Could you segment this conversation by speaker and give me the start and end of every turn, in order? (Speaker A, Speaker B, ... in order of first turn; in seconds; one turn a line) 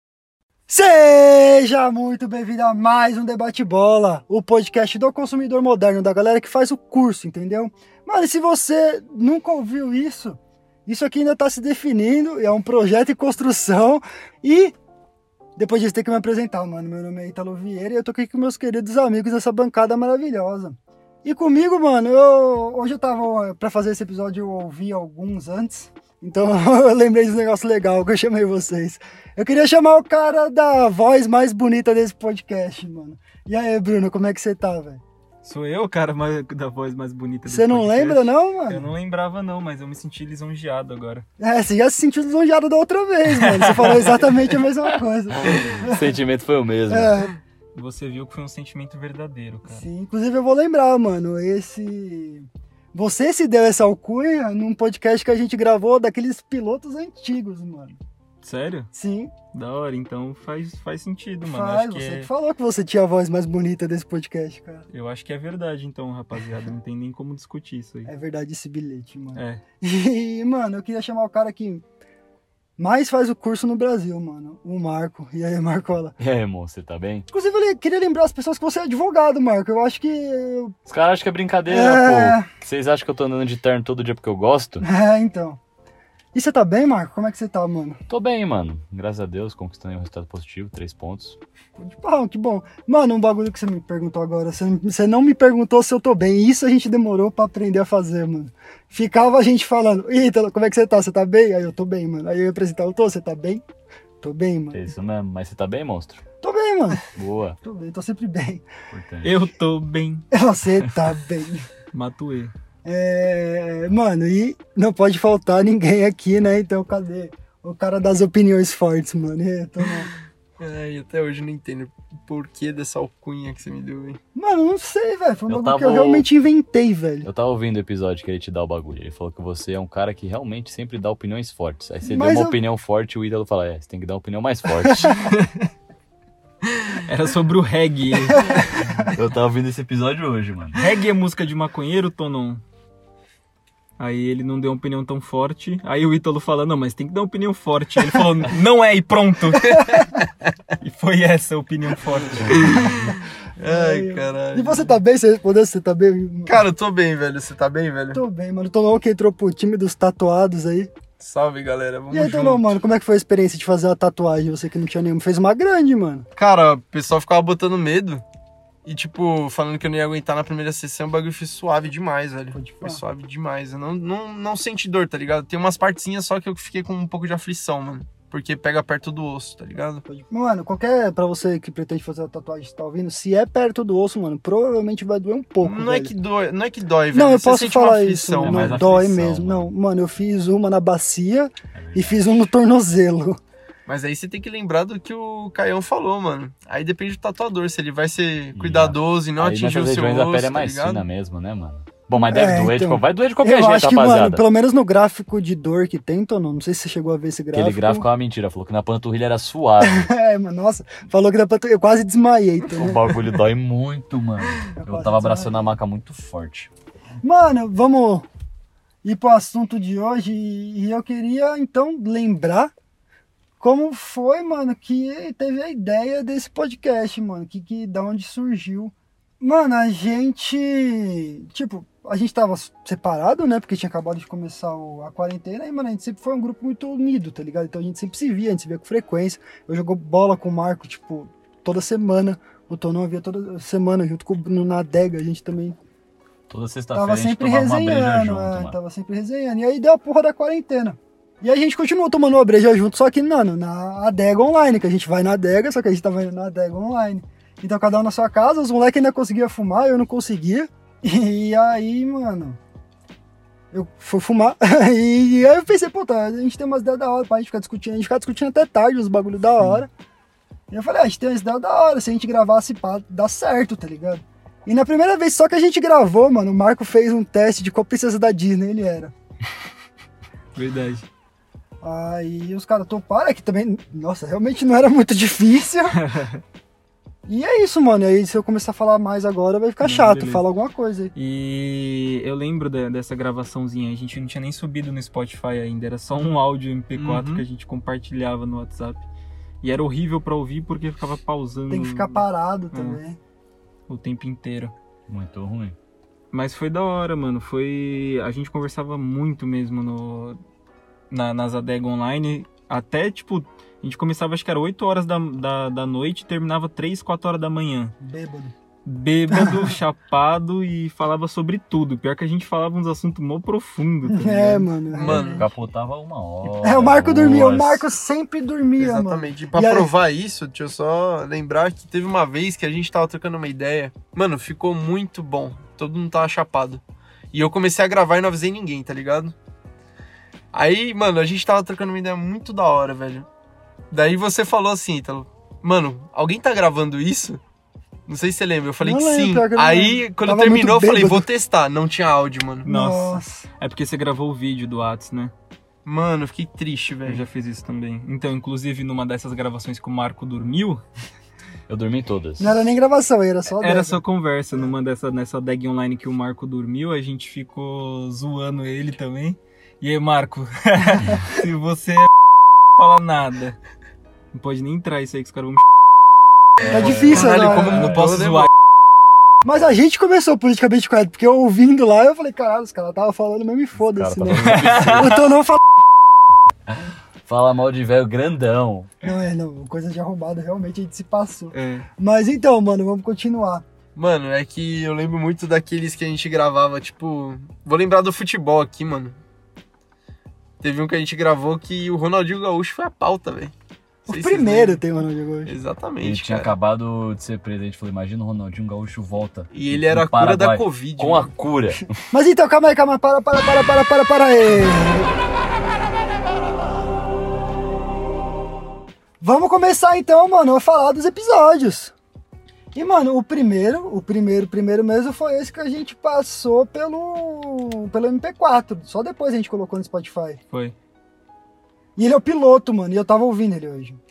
Speaker A: 0.7-14.7
Speaker A: 15.6-35.0
Speaker B: 35.4-41.2
Speaker A: 37.5-38.9
Speaker A: 41.4-46.1
Speaker B: 43.3-44.3
Speaker C: 45.4-47.2
Speaker A: 46.9-47.4
Speaker B: 47.7-49.9
Speaker A: 49.7-58.0
Speaker B: 58.4-58.9
Speaker A: 58.9-59.3
Speaker B: 59.5-62.3
Speaker A: 61.4-64.9
Speaker B: 64.9-68.1
Speaker A: 68.0-71.8
Speaker B: 69.3-69.6
Speaker A: 72.8-76.2
Speaker C: 76.2-77.3
Speaker A: 77.3-80.7
Speaker C: 80.9-84.8
Speaker A: 81.7-82.5
Speaker A: 84.8-85.6
Speaker A: 86.3-88.0
Speaker C: 88.1-91.4
Speaker A: 91.8-103.6
Speaker A: 104.2-104.9
Speaker C: 104.7-106.2
Speaker A: 106.4-107.1
Speaker C: 107.1-107.6
Speaker A: 107.6-108.6
Speaker C: 108.9-109.3
Speaker B: 109.2-110.3
Speaker A: 110.3-111.7
Speaker B: 111.9-112.5
Speaker A: 112.8-120.1
Speaker D: 120.6-124.2
Speaker A: 124.3-127.3
Speaker C: 125.5-126.3
Speaker C: 127.2-135.2
Speaker A: 132.0-132.6
Speaker B: 137.1-138.8
Speaker C: 139.0-140.8
Speaker B: 140.8-142.6
Speaker B: 144.0-150.0
Speaker A: 149.8-150.2
Speaker B: 150.8-152.7
Speaker D: 152.6-154.9
Speaker A: 152.6-156.6
Speaker D: 156.5-158.2
Speaker A: 158.1-160.9
Speaker D: 161.2-162.6
Speaker A: 162.1-166.3
Speaker D: 166.4-168.2
Speaker D: 168.8-180.0
Speaker A: 172.5-173.0
Speaker A: 180.1-186.1
Speaker D: 185.6-188.8
Speaker A: 187.1-193.4
Speaker C: 188.4-189.7
Speaker C: 191.7-192.2
Speaker D: 193.8-201.0
Speaker C: 198.5-204.5
Speaker A: 202.2-208.1
Speaker C: 207.5-210.1
Speaker A: 209.8-213.2
Speaker C: 212.7-216.7
Speaker A: 214.7-215.8
Speaker A: 217.2-218.3
Speaker A: 219.0-222.7
Speaker A: 223.6-245.8
Speaker C: 246.5-248.8
Speaker A: 246.9-262.6
Speaker A: 263.7-269.9
Speaker B: 269.6-269.8
Speaker A: 270.7-279.1
Speaker B: 280.5-281.1
Speaker A: 281.8-286.0
Speaker B: 285.9-286.4
Speaker A: 287.3-291.1
Speaker B: 289.8-290.4
Speaker B: 291.1-299.0
Speaker D: 296.9-297.4
Speaker B: 299.6-303.0
Speaker A: 301.7-303.2
Speaker B: 303.9-304.7
Speaker C: 305.1-305.8
Speaker B: 306.3-310.4
Speaker B: 311.1-317.9
Speaker A: 318.0-318.5
Speaker B: 318.8-325.3
Speaker A: 319.3-319.8
Speaker A: 324.1-325.4
Speaker D: 324.9-325.5
Speaker C: 325.2-327.9
Speaker A: 326.6-329.9
Speaker D: 328.8-336.8
Speaker D: 337.3-339.3
Speaker D: 340.5-343.3
Speaker D: 343.9-347.4
Speaker D: 348.1-352.7
Speaker A: 348.8-351.3
Speaker A: 352.6-353.5
Speaker B: 352.6-355.3
Speaker D: 355.8-357.2
Speaker B: 357.1-360.8
Speaker C: 361.7-362.7
Speaker A: 362.4-364.0
Speaker B: 363.5-372.1
Speaker B: 372.8-373.6
Speaker B: 374.3-375.6
Speaker C: 376.7-378.2
Speaker B: 376.7-378.5
Speaker A: 376.7-377.8
Speaker D: 376.7-378.5
Speaker A: 379.4-385.6
Speaker C: 383.7-385.3
Speaker B: 384.3-385.2
Speaker C: 387.2-388.9
Speaker A: 389.0-393.6
Speaker B: 391.5-391.9
Speaker D: 393.9-399.2
Speaker D: 400.6-403.5
Speaker D: 404.1-404.8
Speaker A: 404.1-405.5
Speaker D: 405.4-406.6
Speaker C: 406.0-411.9
Speaker D: 409.5-411.3
Speaker A: 412.1-415.1
Speaker A: 419.2-421.9
Speaker A: 422.7-430.4
Speaker B: 430.5-430.8
Speaker A: 432.0-434.0